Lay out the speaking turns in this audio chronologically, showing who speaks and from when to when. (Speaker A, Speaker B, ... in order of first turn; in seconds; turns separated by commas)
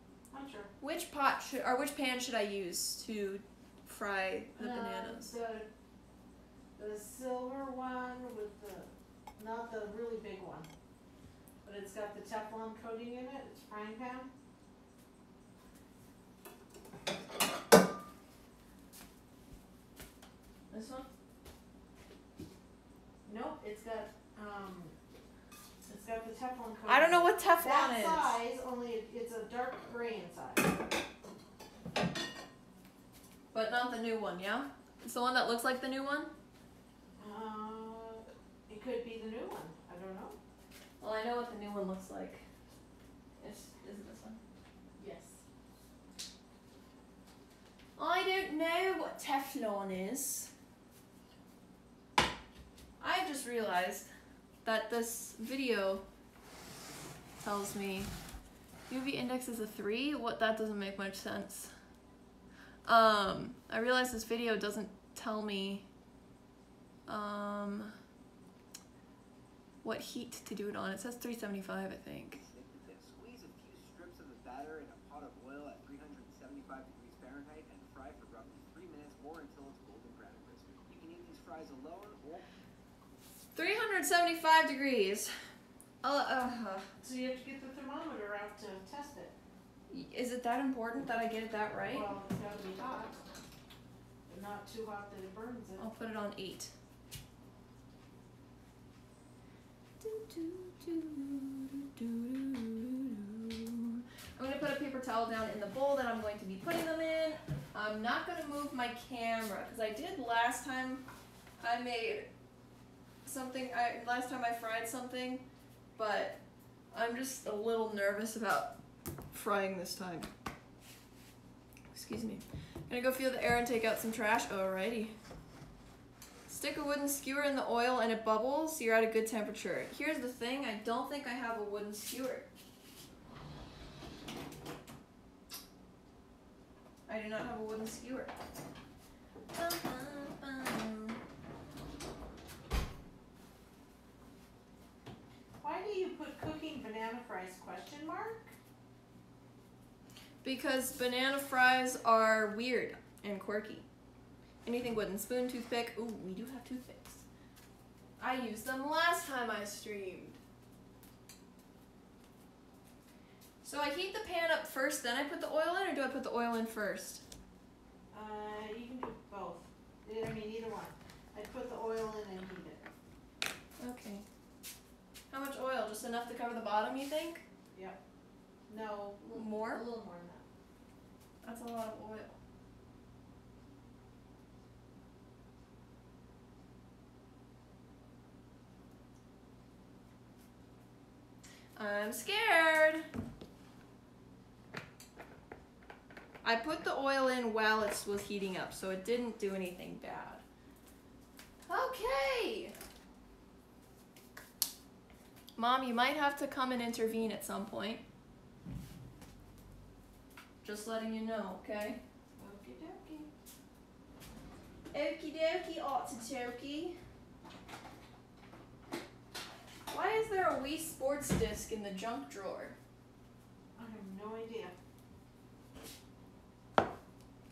Speaker A: 0.3-0.7, Speaker B: 0.8-5.3, Speaker A: 4.6-5.7, Speaker A: 6.8-10.7, Speaker A: 11.6-14.3, Speaker B: 20.7-21.1, Speaker A: 23.2-24.9, Speaker A: 25.9-30.8, Speaker B: 26.9-28.3, Speaker B: 33.5-36.3, Speaker A: 37.2-40.4, Speaker B: 41.0-42.4, Speaker B: 43.4-44.4, Speaker A: 45.0-45.4, Speaker B: 48.0-50.5, Speaker B: 53.0-54.1, Speaker B: 54.6-56.0, Speaker B: 57.4-58.1, Speaker B: 58.9-61.7, Speaker B: 62.9-65.9, Speaker B: 67.1-68.0, Speaker B: 69.8-72.4, Speaker C: 72.4-82.5, Speaker B: 83.5-85.3, Speaker B: 86.0-86.9, Speaker A: 87.0-89.3, Speaker B: 89.9-92.1, Speaker A: 91.9-93.2, Speaker A: 94.3-95.9, Speaker B: 95.8-96.7, Speaker B: 100.0-111.0, Speaker B: 111.6-112.3, Speaker B: 113.2-115.4, Speaker B: 116.0-116.4, Speaker B: 116.9-118.7, Speaker B: 119.3-120.3, Speaker B: 121.9-125.2, Speaker B: 126.5-132.5, Speaker B: 137.1-138.3, Speaker B: 139.5-141.2, Speaker A: 145.6-148.5, Speaker B: 150.4-153.8, Speaker B: 154.7-157.2, Speaker B: 158.2-160.4, Speaker B: 163.6-167.2, Speaker A: 168.1-172.9, Speaker B: 173.8-174.2, Speaker B: 175.3-177.4, Speaker A: 178.7-180.5, Speaker B: 179.3-179.8, Speaker B: 181.4-182.4, Speaker B: 191.8-193.1, Speaker B: 196.4-200.4, Speaker B: 201.7-202.7, Speaker B: 205.6-208.0, Speaker B: 210.6-212.0, Speaker A: 212.4-213.3, Speaker B: 214.9-217.0, Speaker B: 219.9-222.8, Speaker A: 223.8-224.8